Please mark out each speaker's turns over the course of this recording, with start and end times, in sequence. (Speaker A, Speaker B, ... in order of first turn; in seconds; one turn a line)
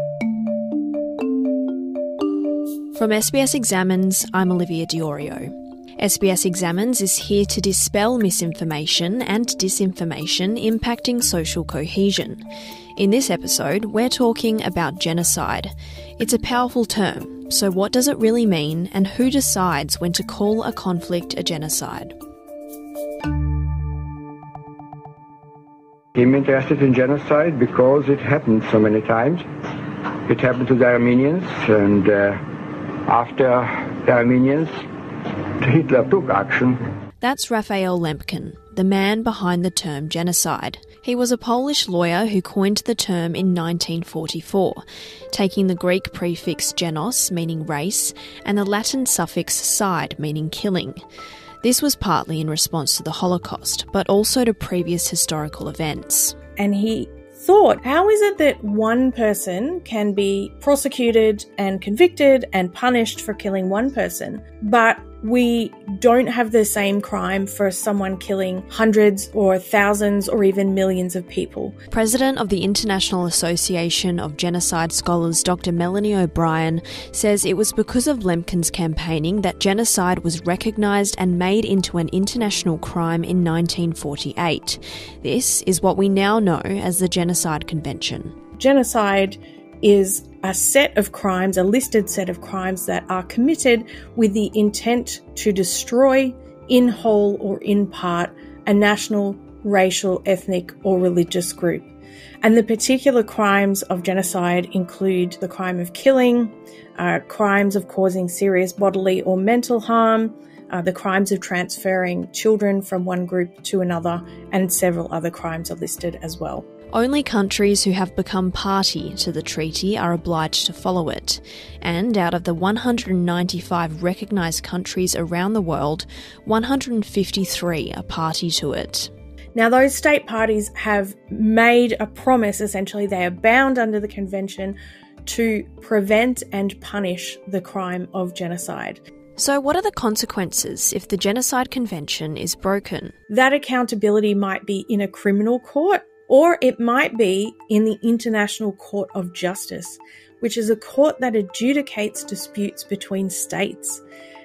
Speaker A: 2.9-12.4
Speaker A: 12.9-22.1
Speaker B: 26.1-29.4
Speaker B: 30.2-32.4
Speaker B: 33.0-34.8
Speaker B: 35.6-36.8
Speaker A: 37.2-51.0
Speaker A: 51.6-56.3
Speaker C: 56.6-71.7
Speaker A: 71.9-88.3
Speaker C: 88.6-101.9
Speaker C: 102.4-116.6
Speaker A: 116.9-129.1
Speaker C: 129.5-139.0
Speaker A: 139.4-143.1
Speaker C: 143.3-154.0